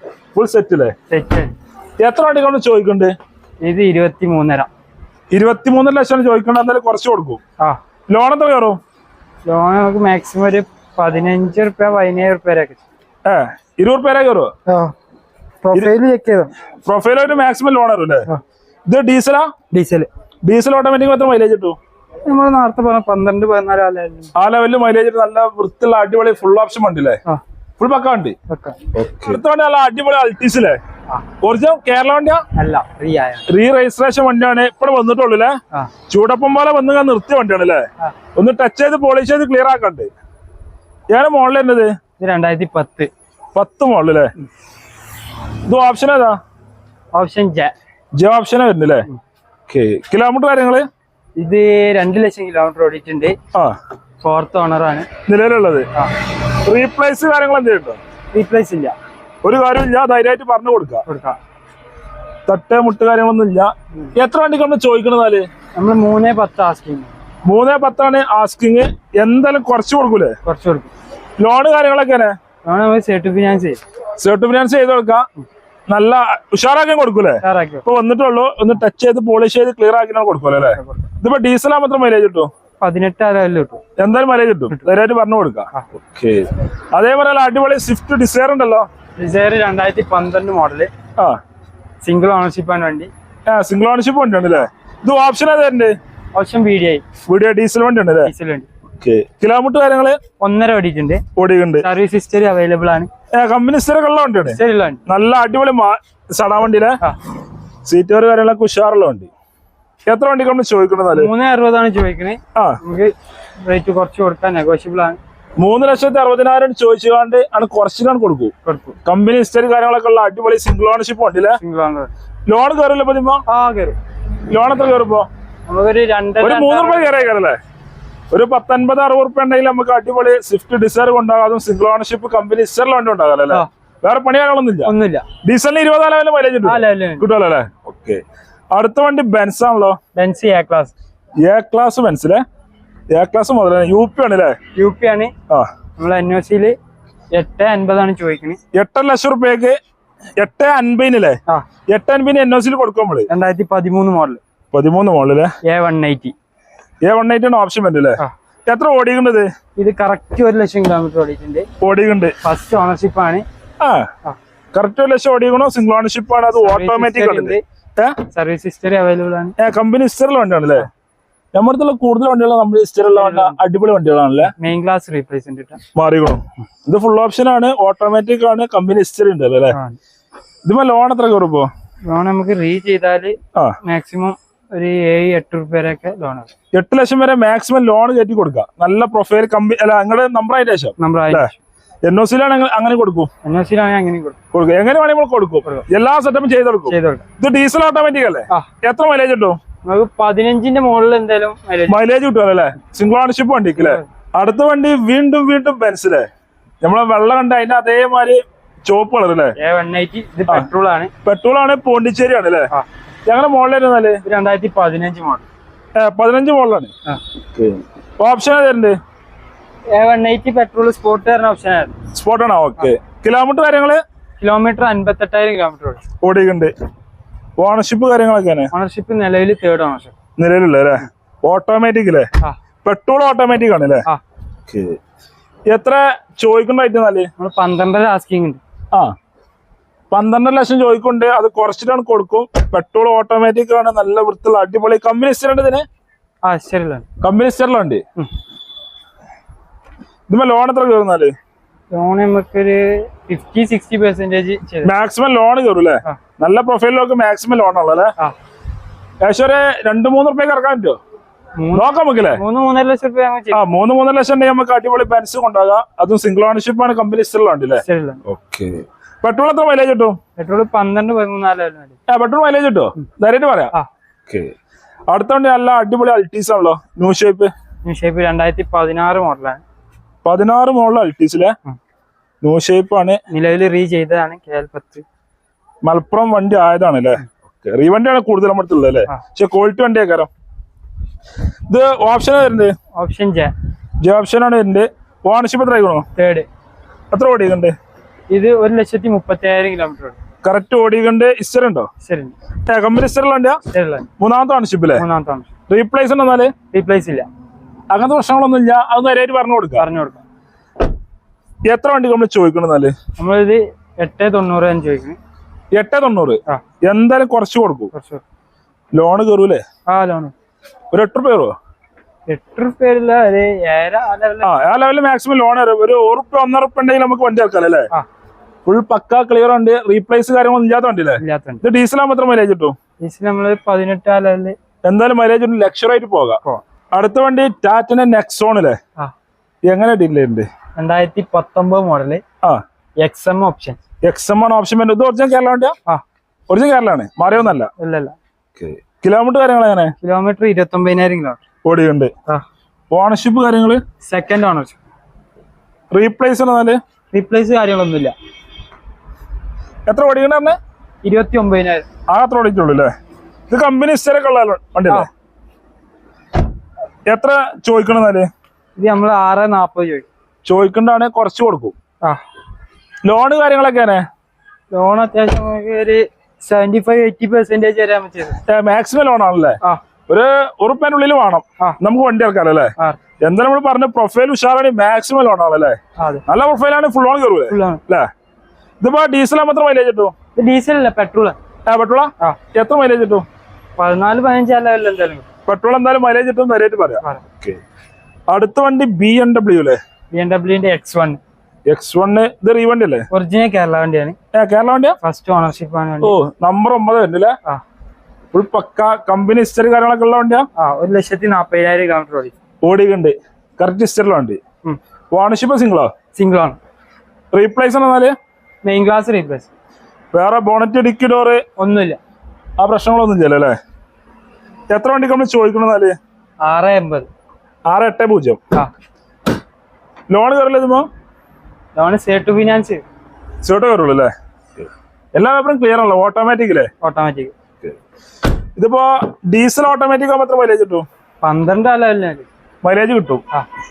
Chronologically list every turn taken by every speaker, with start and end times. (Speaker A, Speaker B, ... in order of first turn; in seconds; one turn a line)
Speaker A: 0.3-0.9
Speaker B: 1.1-1.5
Speaker A: 2.0-3.1
Speaker B: 3.6-4.7
Speaker A: 5.3-7.4
Speaker A: 8.1-8.8
Speaker B: 9.5-12.8
Speaker A: 13.2-14.5
Speaker B: 14.7-14.9
Speaker B: 15.6-16.5
Speaker A: 16.9-18.3
Speaker A: 18.9-19.5
Speaker B: 19.7-20.1
Speaker A: 20.4-21.8
Speaker B: 22.3-24.3
Speaker A: 24.4-27.2
Speaker A: 27.8-28.4
Speaker B: 28.5-28.8
Speaker A: 28.9-30.8
Speaker A: 31.4-32.4
Speaker B: 32.5-33.5
Speaker A: 33.5-35.6
Speaker A: 36.1-40.1
Speaker A: 41.1-41.9
Speaker B: 42.2-43.1
Speaker A: 43.5-44.3
Speaker A: 45.7-46.4
Speaker B: 47.1-47.7
Speaker A: 48.2-49.1
Speaker A: 49.7-50.9
Speaker B: 51.4-53.4
Speaker B: 54.2-55.1
Speaker A: 55.3-55.9
Speaker A: 56.5-58.0
Speaker B: 58.3-59.0
Speaker A: 59.4-61.0
Speaker B: 61.1-61.4
Speaker A: 62.5-65.5
Speaker B: 65.8-67.1
Speaker A: 67.5-70.4
Speaker B: 70.4-70.9
Speaker A: 71.4-72.3
Speaker B: 72.7-73.8
Speaker A: 74.2-75.2
Speaker A: 75.9-82.5
Speaker B: 77.4-77.9
Speaker B: 80.8-81.0
Speaker B: 82.8-83.8
Speaker A: 84.0-88.9
Speaker B: 89.2-90.9
Speaker B: 92.0-93.1
Speaker A: 93.5-96.0
Speaker B: 96.3-97.0
Speaker A: 97.3-98.3
Speaker B: 98.2-98.7
Speaker A: 99.0-100.2
Speaker B: 100.4-101.2
Speaker A: 101.4-101.9
Speaker B: 101.8-103.1
Speaker A: 103.3-107.0
Speaker B: 104.5-105.0
Speaker A: 107.9-109.3
Speaker A: 110.1-111.3
Speaker B: 111.1-113.1
Speaker B: 113.6-115.2
Speaker A: 115.6-118.5
Speaker B: 118.6-119.0
Speaker A: 119.0-121.6
Speaker B: 121.6-122.1
Speaker A: 122.5-123.4
Speaker B: 123.5-124.0
Speaker A: 124.5-125.3
Speaker B: 125.7-127.3
Speaker A: 126.4-127.6
Speaker A: 128.3-134.9
Speaker B: 134.8-135.3
Speaker A: 135.4-140.0
Speaker B: 136.6-137.3
Speaker B: 140.2-140.9
Speaker A: 141.4-142.4
Speaker A: 143.1-144.6
Speaker B: 144.7-145.3
Speaker B: 146.0-146.8
Speaker B: 147.3-148.6
Speaker A: 148.7-149.8
Speaker A: 150.4-151.4
Speaker A: 151.9-153.3
Speaker B: 153.3-154.4
Speaker A: 154.7-155.5
Speaker B: 155.6-156.3
Speaker A: 157.0-159.5
Speaker B: 159.8-161.7
Speaker A: 161.8-162.3
Speaker B: 162.4-163.4
Speaker A: 163.8-164.1
Speaker A: 164.7-168.2
Speaker B: 166.5-167.6
Speaker B: 168.3-169.6
Speaker A: 169.6-170.9
Speaker A: 171.5-174.5
Speaker B: 173.1-173.6
Speaker B: 174.5-175.8
Speaker A: 175.9-179.8
Speaker B: 179.7-180.0
Speaker A: 180.7-181.7
Speaker B: 182.1-186.5
Speaker A: 186.7-191.5
Speaker B: 191.0-191.6
Speaker A: 192.0-193.3
Speaker B: 193.4-194.4
Speaker A: 194.5-199.6
Speaker B: 196.9-197.2
Speaker B: 199.8-202.0
Speaker A: 201.9-206.3
Speaker B: 203.8-204.1
Speaker A: 206.8-209.6
Speaker B: 209.6-211.1
Speaker A: 211.2-212.7
Speaker A: 213.3-214.2
Speaker B: 214.2-215.5
Speaker A: 216.0-216.9
Speaker A: 217.5-219.0
Speaker B: 219.9-222.0
Speaker A: 222.1-224.0
Speaker B: 224.4-226.0
Speaker A: 226.2-226.7
Speaker A: 227.6-228.7
Speaker B: 228.7-230.1
Speaker A: 230.4-232.3
Speaker A: 232.8-234.1
Speaker A: 234.7-235.0
Speaker A: 235.7-237.3
Speaker B: 237.4-238.6
Speaker A: 240.1-245.8
Speaker B: 246.4-247.1
Speaker A: 247.2-248.0
Speaker A: 250.3-251.3
Speaker B: 251.9-254.9
Speaker A: 254.8-258.1
Speaker A: 259.2-261.0
Speaker B: 261.6-263.6
Speaker A: 261.8-262.4
Speaker A: 263.5-270.2
Speaker B: 267.8-268.2
Speaker B: 270.4-272.0
Speaker A: 272.1-273.7
Speaker A: 274.3-274.5
Speaker A: 275.1-277.5
Speaker B: 277.8-279.6
Speaker A: 280.2-281.6
Speaker A: 282.4-283.2
Speaker B: 283.3-285.1
Speaker A: 285.8-290.3
Speaker A: 291.7-292.7
Speaker B: 292.9-293.5
Speaker A: 294.0-296.1
Speaker B: 296.2-296.5
Speaker A: 297.1-297.7
Speaker B: 298.3-300.2
Speaker A: 300.4-301.9
Speaker B: 302.0-302.4
Speaker A: 302.7-303.6
Speaker B: 303.7-304.1
Speaker A: 304.2-305.1
Speaker B: 304.9-305.5
Speaker A: 305.7-306.5
Speaker B: 306.7-307.3
Speaker A: 307.9-309.9
Speaker B: 309.8-310.2
Speaker A: 311.7-312.9
Speaker B: 313.2-315.2
Speaker A: 315.7-317.9
Speaker B: 317.9-318.2
Speaker A: 318.9-319.6
Speaker B: 319.9-320.3
Speaker A: 320.9-321.6
Speaker B: 322.3-324.6
Speaker A: 324.4-327.9
Speaker A: 328.7-332.8
Speaker B: 331.2-331.6
Speaker B: 333.0-334.6
Speaker A: 334.9-336.4
Speaker A: 336.9-338.8
Speaker A: 339.7-340.5
Speaker B: 340.8-342.2
Speaker B: 343.0-343.8
Speaker A: 344.0-345.8
Speaker A: 346.5-347.7
Speaker B: 347.8-348.1
Speaker A: 348.6-349.9
Speaker B: 350.0-351.4
Speaker A: 351.6-352.1
Speaker A: 352.9-353.8
Speaker B: 354.1-354.8
Speaker A: 355.9-356.8
Speaker B: 357.1-358.1
Speaker A: 359.9-360.6
Speaker B: 361.0-361.9
Speaker A: 362.1-362.9
Speaker A: 363.5-365.1
Speaker A: 367.1-368.3
Speaker B: 368.8-370.1
Speaker A: 370.4-371.8
Speaker A: 373.0-374.0
Speaker B: 374.7-378.4
Speaker A: 378.5-388.1
Speaker B: 386.0-386.2
Speaker B: 387.5-387.8
Speaker A: 388.8-390.1
Speaker B: 390.4-391.4
Speaker A: 391.7-393.2
Speaker B: 393.8-395.3
Speaker A: 395.5-397.6
Speaker A: 398.3-399.8
Speaker B: 400.1-401.2
Speaker A: 401.7-403.1
Speaker B: 403.1-404.2
Speaker A: 404.3-405.0
Speaker B: 405.0-406.2
Speaker A: 406.0-407.4
Speaker A: 408.3-410.5
Speaker B: 410.6-412.4
Speaker A: 412.6-414.4
Speaker A: 415.1-415.9
Speaker B: 416.1-416.6
Speaker A: 417.3-418.1
Speaker B: 418.6-419.5
Speaker A: 420.1-421.4
Speaker B: 421.6-422.0
Speaker A: 422.6-423.6
Speaker A: 424.7-425.9
Speaker B: 426.4-427.1
Speaker A: 427.7-428.4
Speaker A: 430.1-430.9
Speaker B: 431.8-432.8
Speaker A: 433.4-436.7
Speaker B: 436.8-437.3
Speaker A: 438.6-440.9
Speaker B: 441.2-442.3
Speaker A: 442.6-443.2